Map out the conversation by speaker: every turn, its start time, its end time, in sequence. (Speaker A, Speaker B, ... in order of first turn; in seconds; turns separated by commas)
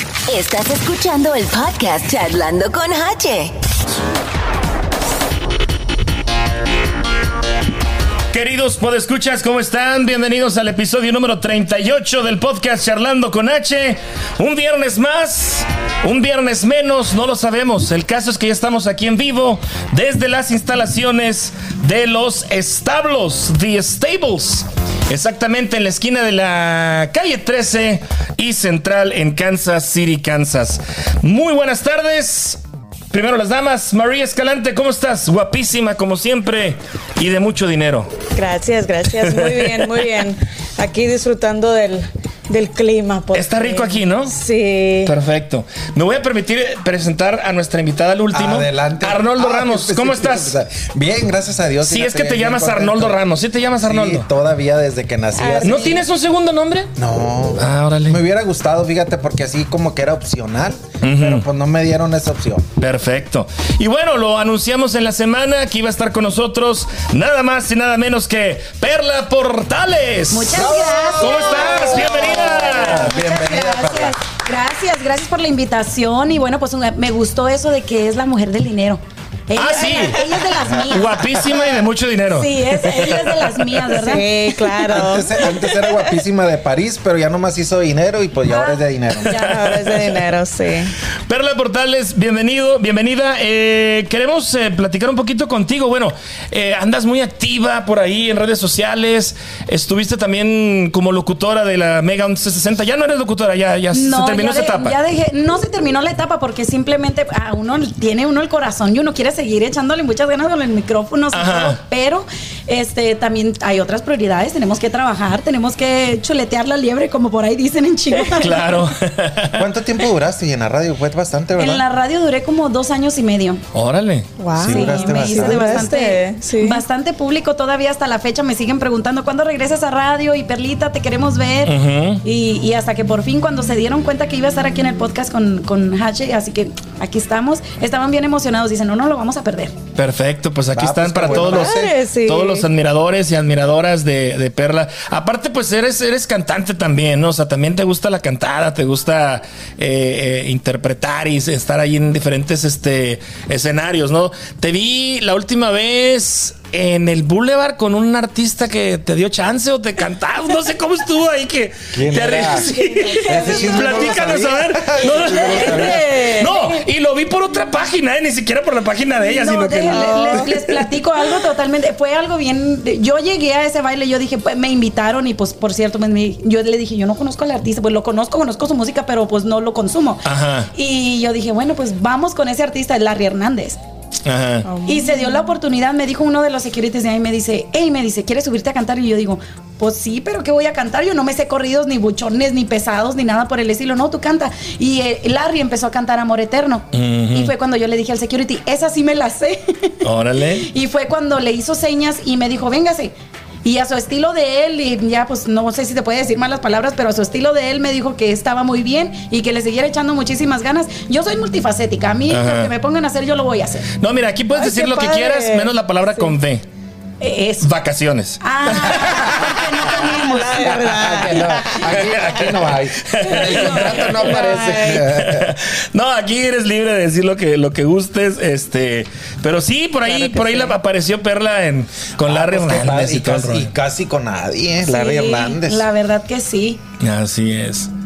Speaker A: 0.3-3.5, Speaker B: 8.3-32.6, Speaker B: 33.1-38.1, Speaker C: 38.4-45.1, Speaker B: 39.2-39.7, Speaker B: 43.3-44.3, Speaker B: 45.0-50.6, Speaker D: 48.3-53.2, Speaker B: 51.8-54.3, Speaker D: 53.8-56.0, Speaker C: 55.4-56.0, Speaker B: 55.6-56.9, Speaker D: 57.0-62.7, Speaker B: 57.6-58.2, Speaker B: 61.0-61.5, Speaker B: 62.8-73.1, Speaker E: 70.3-81.4, Speaker D: 70.5-74.2, Speaker B: 79.5-82.6, Speaker E: 82.3-84.3, Speaker C: 83.9-85.9, Speaker D: 84.9-89.3, Speaker E: 88.5-89.5, Speaker C: 89.3-90.9, Speaker B: 89.4-89.9, Speaker B: 91.3-105.0, Speaker E: 103.9-118.8, Speaker B: 111.3-111.8, Speaker B: 118.4-119.7, Speaker D: 119.5-121.8, Speaker E: 121.6-123.6, Speaker B: 123.7-124.3, Speaker C: 124.4-126.8, Speaker D: 124.6-125.9, Speaker E: 124.6-139.8, Speaker B: 131.6-132.2, Speaker B: 140.0-170.6, Speaker D: 140.7-141.9, Speaker C: 141.4-142.7, Speaker D: 161.9-162.7, Speaker C: 162.8-164.1, Speaker D: 163.2-166.1, Speaker C: 165.1-166.8, Speaker E: 169.2-183.8, Speaker C: 169.9-170.6, Speaker B: 180.2-180.7, Speaker B: 184.2-184.7, Speaker C: 184.7-185.4, Speaker E: 184.8-200.0, Speaker B: 196.9-197.5, Speaker B: 200.0-200.7, Speaker E: 200.6-213.9, Speaker B: 212.3-212.7, Speaker B: 214.0-216.7, Speaker C: 214.6-216.3, Speaker E: 217.2-217.7, Speaker B: 217.6-218.8, Speaker E: 218.4-220.8, Speaker C: 218.7-221.9, Speaker D: 220.6-225.5, Speaker B: 221.6-233.7, Speaker E: 223.5-224.0, Speaker C: 224.1-225.1, Speaker C: 230.1-230.8, Speaker D: 232.2-235.8, Speaker E: 234.9-236.8, Speaker B: 237.0-237.9